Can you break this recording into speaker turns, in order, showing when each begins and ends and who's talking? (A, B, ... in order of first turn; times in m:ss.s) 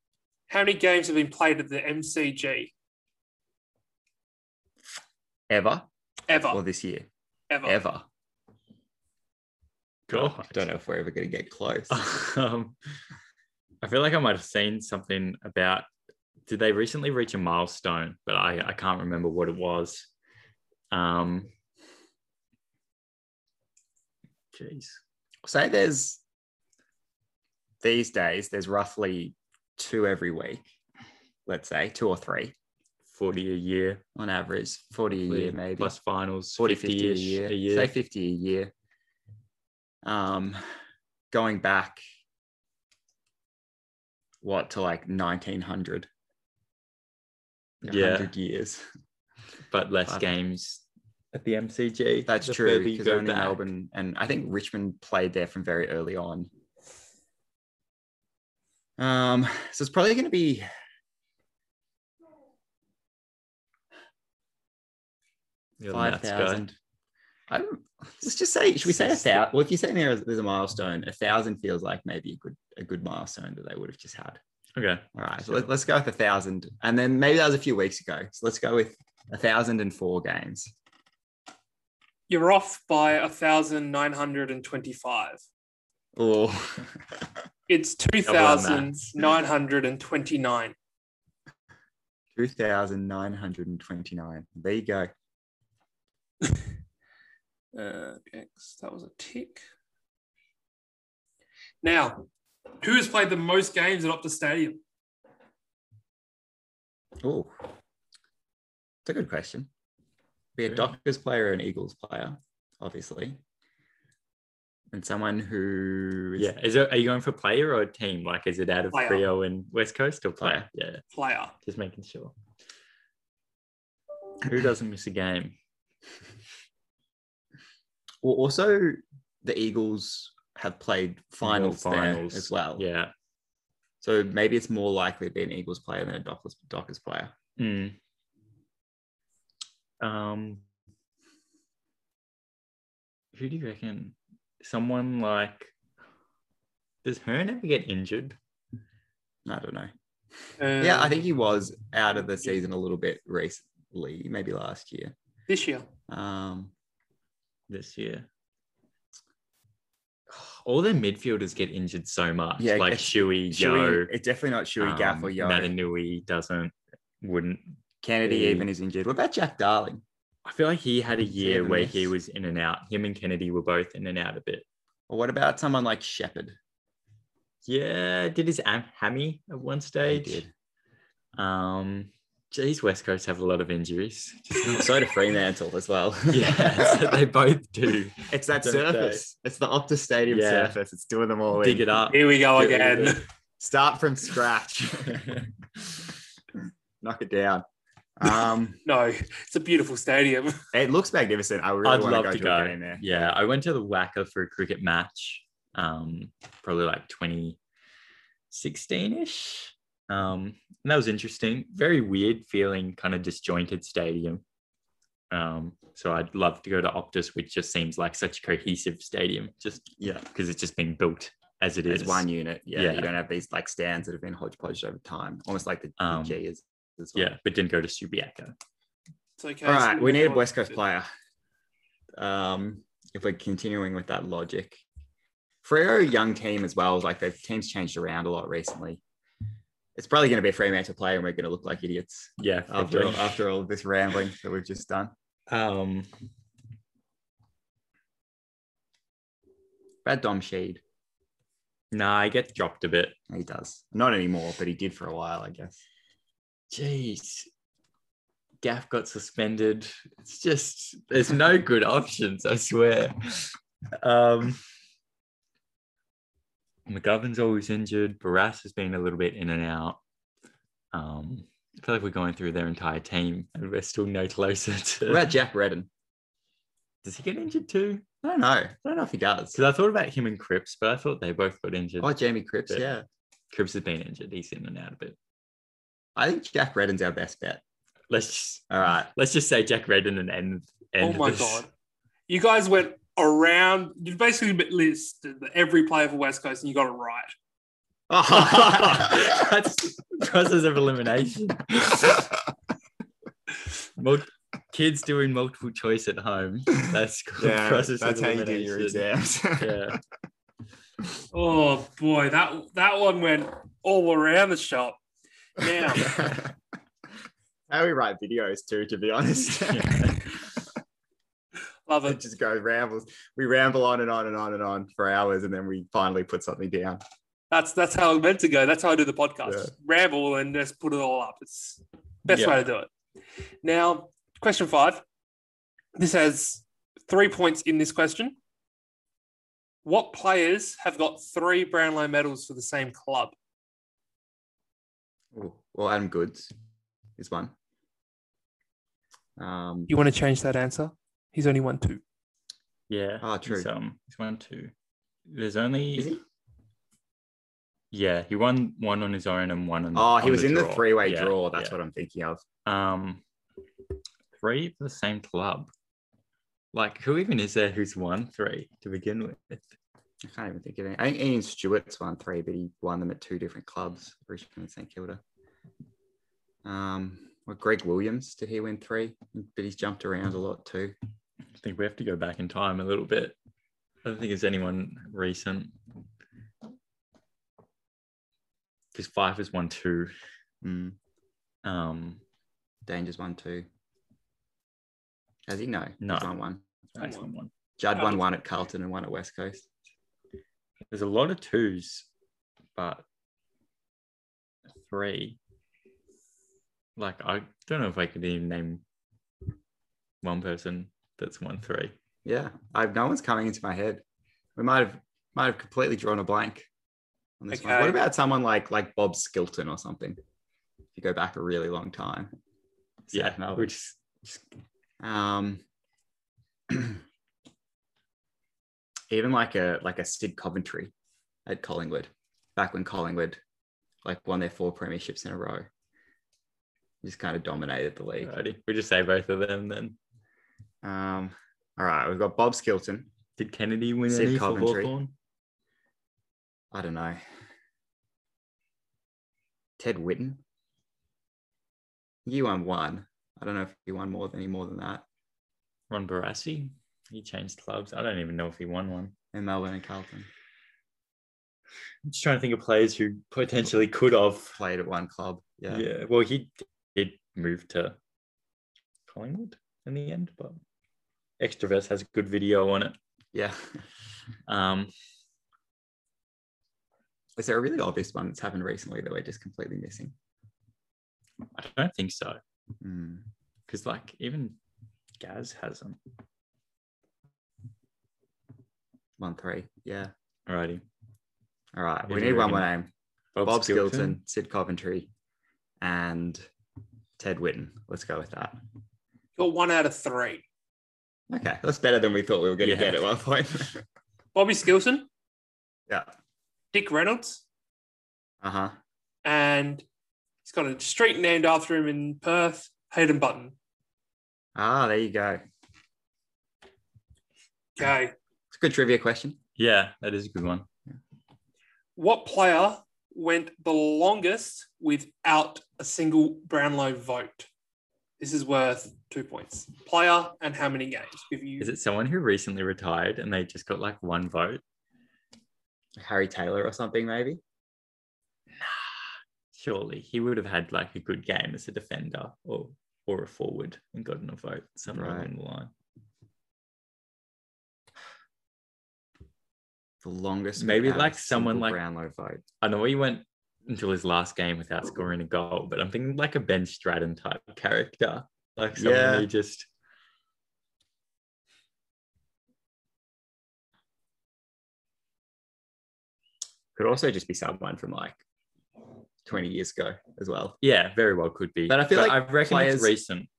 0:00.5-0:02.7 A
0:05.5-0:05.9 B
0:06.3-0:06.6 A
0:06.5-0:07.1 B
0:07.5-0:07.8 A
0:07.6-0:08.1 B
0:10.1-0:10.6 C
0:10.1-0:12.2 B
0:11.9-0:12.8 C
0:13.8-0:15.9 C
0:16.5-0:20.1 C
0:20.9-0:21.5 C
0:24.5-0:25.0 C
0:25.4-0:26.2 B
0:27.8-0:30.7 B
0:31.5-0:32.5 B
0:33.1-0:34.0 C
0:34.2-0:35.9 B
0:35.1-0:37.9 C
0:36.6-0:38.7 B
0:40.0-0:40.6 B
0:41.3-0:42.0 B
0:44.4-0:46.1 B
0:47.8-0:48.8 B
0:47.8-0:48.3 C
0:49.7-0:50.8 C
0:51.3-0:53.6 C
0:52.2-0:56.5 B
0:59.0-1:00.7 B
1:05.8-1:06.7 C
1:05.9-1:06.8 B
1:07.5-1:14.4 B
1:08.9-1:09.4 C
1:14.8-1:15.7 C
1:15.1-1:20.7 B
1:22.3-1:25.4 A
1:26.2-1:27.3 B
1:27.7-1:30.7 A
1:28.2-1:29.0 C
1:32.3-1:35.1 B
1:37.7-1:39.6 A
1:41.8-1:42.2 A
1:42.8-1:44.8 A
1:47.2-1:47.5 B
1:49.0-1:49.7 B
1:50.6-1:53.4 B
1:54.9-1:56.5 B
1:56.4-2:01.0 C
1:58.9-1:59.3 A
2:00.4-2:00.7 B
2:01.1-2:01.5 A
2:01.6-2:02.3 C
2:04.4-2:05.5 C
2:08.2-2:12.8 B
2:11.4-2:13.1 C
2:14.0-2:17.3 B
2:17.6-2:18.0 C
2:20.0-2:20.6 C
2:23.3-2:25.7 C
2:27.0-2:28.4 C
2:29.4-2:29.9 B
2:30.6-2:31.2 A
2:30.8-2:35.1 B
2:35.5-2:35.9 A
2:36.1-2:36.7 B
2:37.7-2:38.2 C
2:40.3-2:44.1 C
2:42.6-2:45.7 B
2:44.8-2:48.7 C
2:48.0-2:50.0 B
2:50.4-2:54.6 C
2:51.4-2:52.1 B
2:55.1-2:56.6 B
2:57.6-3:00.4 C
3:00.1-3:00.5 B
3:01.4-3:04.9 C
3:04.6-3:07.2 B
3:06.3-3:09.2 C
3:08.3-3:11.9 B
3:10.3-3:10.7 C
3:11.6-3:13.2 C
3:12.1-3:13.2 A
3:13.6-3:15.4 B
3:17.0-3:17.6 B
3:18.2-3:18.8 B
3:18.8-3:20.6 A
3:20.7-3:23.3 B
3:21.8-3:27.6 C
3:28.5-3:34.4 C
3:35.3-3:43.1 C
3:40.0-3:40.2 B
3:41.9-3:47.3 B
3:46.0-3:46.4 C
3:47.1-3:48.5 C
3:49.4-3:50.8 A
3:49.6-3:51.1 B
3:52.2-3:54.8 B
3:55.6-3:59.0 B
4:00.0-4:05.1 B
4:02.4-4:03.4 C
4:05.5-4:06.1 C
4:10.0-4:10.8 B
4:11.9-4:13.1 C
4:13.3-4:15.8 B
4:16.7-4:17.5 C
4:18.6-4:24.6 C
4:26.9-4:30.0 C
4:30.9-4:35.2 C
4:35.1-4:35.9 B
4:37.0-4:38.0 C
4:38.2-4:39.6 B
4:39.5-4:42.1 C
4:42.0-4:43.0 B
4:43.5-4:45.2 C
4:46.2-4:47.6 B
4:48.1-4:51.6 C
4:48.7-4:49.1 B
4:51.0-4:51.7 A
4:52.3-4:57.3 A
4:58.1-4:59.5 B
4:58.3-5:02.3 C
5:04.0-5:10.0 C
5:07.4-5:10.0 B
5:11.3-5:15.0 A
5:15.6-5:16.2 A
5:15.9-5:16.5 B
5:17.7-5:20.4 B
5:19.7-5:20.3 C
5:21.9-5:22.2 A
5:22.0-5:27.0 B
5:27.5-5:32.9 A
5:29.4-5:29.7 B
5:32.3-5:32.6 C
5:33.6-5:35.0 A
5:36.0-5:38.4 A
5:39.8-5:43.3 A
5:45.3-5:46.5 B
5:47.2-5:47.5 B
5:49.4-5:49.9 B
5:49.9-5:52.0 A
5:52.9-5:54.7 C
5:53.2-5:53.7 B
5:55.3-5:56.1 C
5:56.0-5:56.2 B
5:57.9-6:01.8 C
5:59.9-6:02.4 B
6:02.6-6:03.2 C
6:04.4-6:05.7 C
6:06.7-6:09.7 C
6:10.2-6:15.2 B
6:16.6-6:20.9 B
6:21.5-6:23.3 C
6:24.0-6:25.7 C
6:28.9-6:30.1 C
6:30.6-6:31.0 B
6:31.6-6:32.2 C
6:32.9-6:33.7 B
6:35.5-6:36.6 B
6:36.0-6:36.3 C
6:36.9-6:37.5 C
6:37.0-6:37.3 A
6:37.8-6:39.7 B
6:40.9-6:42.1 C
6:42.8-6:43.0 C
6:44.8-6:45.4 C
6:47.0-6:48.8 C
6:50.2-6:51.9 C
6:52.2-6:54.0 B
6:54.6-6:56.7 B
6:57.4-7:00.2 B
6:57.5-6:58.0 A
7:00.9-7:02.3 B
7:03.1-7:03.7 B
7:03.1-7:04.4 C
7:05.0-7:05.6 B
7:06.7-7:07.0 B
7:09.1-7:10.9 B
7:11.4-7:13.4 B
7:14.0-7:15.7 B
7:17.0-7:18.3 B
7:18.2-7:20.0 C
7:20.8-7:23.1 B
7:23.4-7:25.1 C
7:24.1-7:24.9 B
7:26.7-7:27.2 B
7:29.8-7:30.4 B
7:32.2-7:35.0 B
7:35.9-7:39.1 C
7:39.3-7:40.3 B
7:42.0-7:44.6 C
7:44.6-7:45.9 B
7:45.7-7:48.0 C
7:49.1-7:50.6 C
7:51.4-7:52.9 C
7:53.3-7:53.8 B
7:54.5-7:54.9 C
7:57.4-8:00.1 B
8:01.5-8:02.4 C
8:02.8-8:03.2 B
8:03.7-8:04.6 C
8:05.2-8:06.0 C
8:09.2-8:10.1 B
8:10.5-8:10.8 C
8:11.7-8:12.9 B
8:12.0-8:12.7 C
8:13.3-8:14.2 C
8:13.4-8:15.1 B
8:15.8-8:16.5 B
8:17.2-8:18.6 B
8:19.4-8:20.4 A
8:21.3-8:23.8 B
8:22.6-8:23.0 C
8:24.3-8:25.1 A
8:26.7-8:27.4 A
8:28.4-8:28.8 B
8:29.2-8:29.8 A
8:30.4-8:33.5 A
8:34.5-8:35.4 B
8:37.8-8:38.1 A
8:38.5-8:39.4 B
8:39.6-8:40.7 C
8:42.0-8:47.5 A
8:48.2-8:51.7 A
8:51.6-8:54.6 C
8:56.0-8:57.4 B
8:58.6-9:05.7 C
9:04.9-9:05.3 B
9:10.0-9:12.4 B
9:10.6-9:11.8 C
9:12.6-9:19.7 C
9:18.8-9:19.3 B
9:26.7-9:28.2 B
9:29.2-9:30.6 B
9:30.6-9:33.3 C
9:31.7-9:32.9 B